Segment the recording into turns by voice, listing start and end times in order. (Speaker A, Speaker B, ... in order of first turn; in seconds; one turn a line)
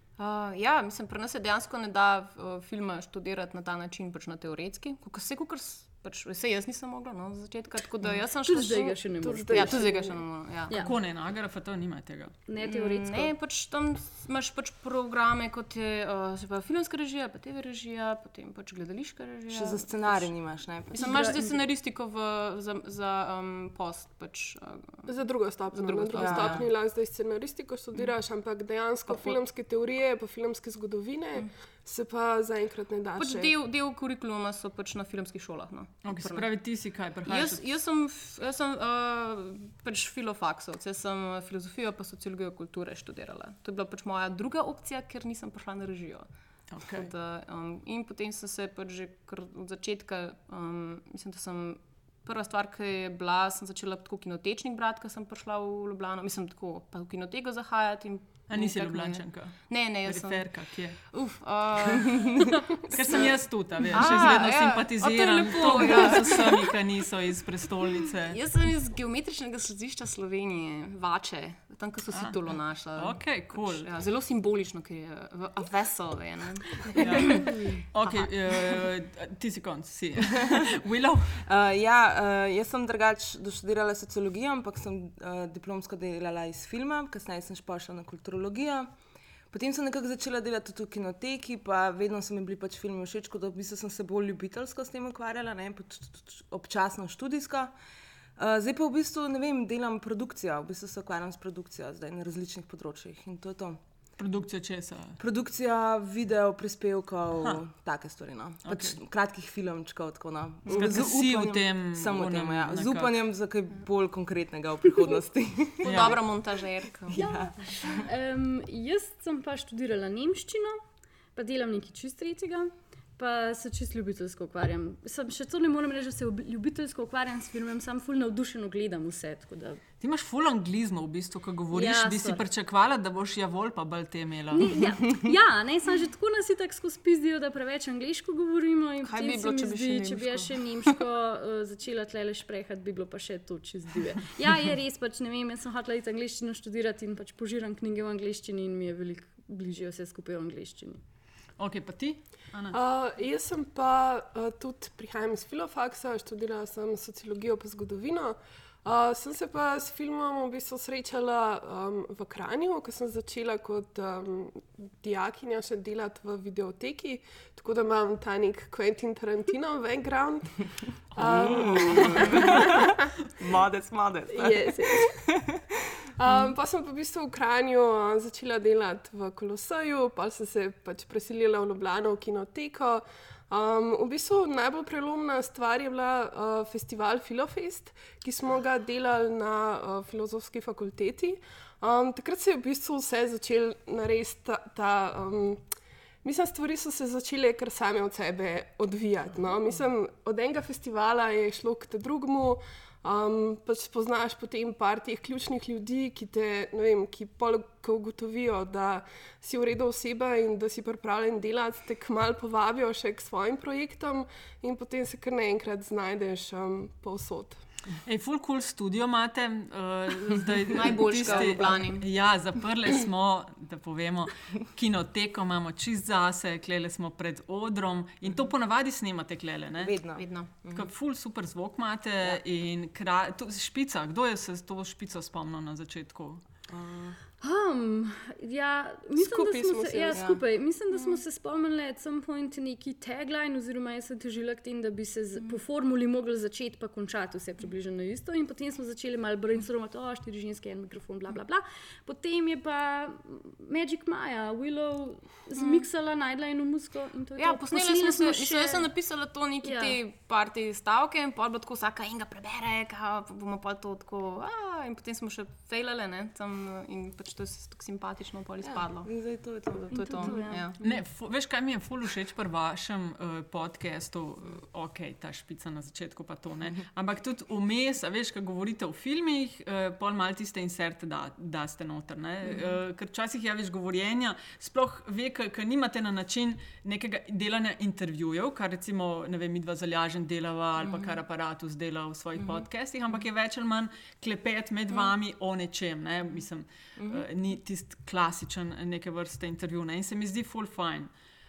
Speaker A: 0.2-10.9
Speaker B: 8.4-9.9
Speaker C: 9.2-10.2
Speaker B: 10.7-10.9
Speaker D: 10.8-12.3
Speaker B: 12.5-13.3
Speaker A: 12.6-20.3
Speaker E: 19.5-21.2
Speaker B: 20.9-21.6
Speaker A: 20.9-25.1
Speaker C: 25.1-33.5
Speaker A: 25.7-26.6
Speaker E: 26.1-26.6
Speaker A: 29.1-29.4
Speaker A: 33.2-36.5
Speaker D: 36.0-37.6
Speaker A: 37.2-46.3
Speaker D: 46.7-47.1
Speaker A: 46.9-66.8
Speaker D: 58.5-61.0
Speaker D: 62.9-68.4
Speaker A: 68.3-78.8
Speaker D: 72.1-72.4
Speaker D: 73.0-73.9
Speaker B: 76.9-77.8
Speaker D: 77.0-81.4
Speaker E: 81.4-88.9
Speaker E: 89.5-97.7
Speaker E: 98.4-103.8
Speaker D: 104.2-105.2
Speaker E: 105.2-116.2
Speaker D: 108.6-109.0
Speaker D: 110.7-113.1
Speaker A: 115.8-117.2
Speaker D: 115.8-116.2
Speaker E: 117.1-117.6
Speaker B: 117.1-120.8
Speaker B: 121.3-129.8
Speaker D: 130.0-134.7
Speaker B: 131.7-132.4
Speaker B: 134.5-151.0
Speaker A: 139.0-140.9
Speaker D: 151.6-152.8
Speaker C: 152.7-172.8
Speaker D: 171.1-172.8
Speaker E: 171.2-172.8
Speaker E: 173.4-175.6
Speaker C: 174.3-175.2
Speaker C: 176.2-195.6
Speaker C: 196.2-217.6
Speaker D: 218.0-229.9
Speaker A: 220.7-222.1
Speaker E: 229.8-230.9
Speaker A: 230.2-230.5
Speaker D: 230.7-236.4
Speaker E: 236.7-237.2
Speaker B: 237.4-258.9
Speaker C: 239.2-240.3
Speaker E: 240.1-240.4
Speaker A: 255.6-255.8
Speaker A: 257.4-269.1
Speaker B: 259.6-260.0
Speaker E: 268.6-270.4
Speaker A: 269.9-270.8
Speaker B: 269.9-270.7
Speaker D: 270.8-301.1
Speaker E: 290.8-291.1
Speaker E: 292.4-292.6
Speaker E: 297.0-297.2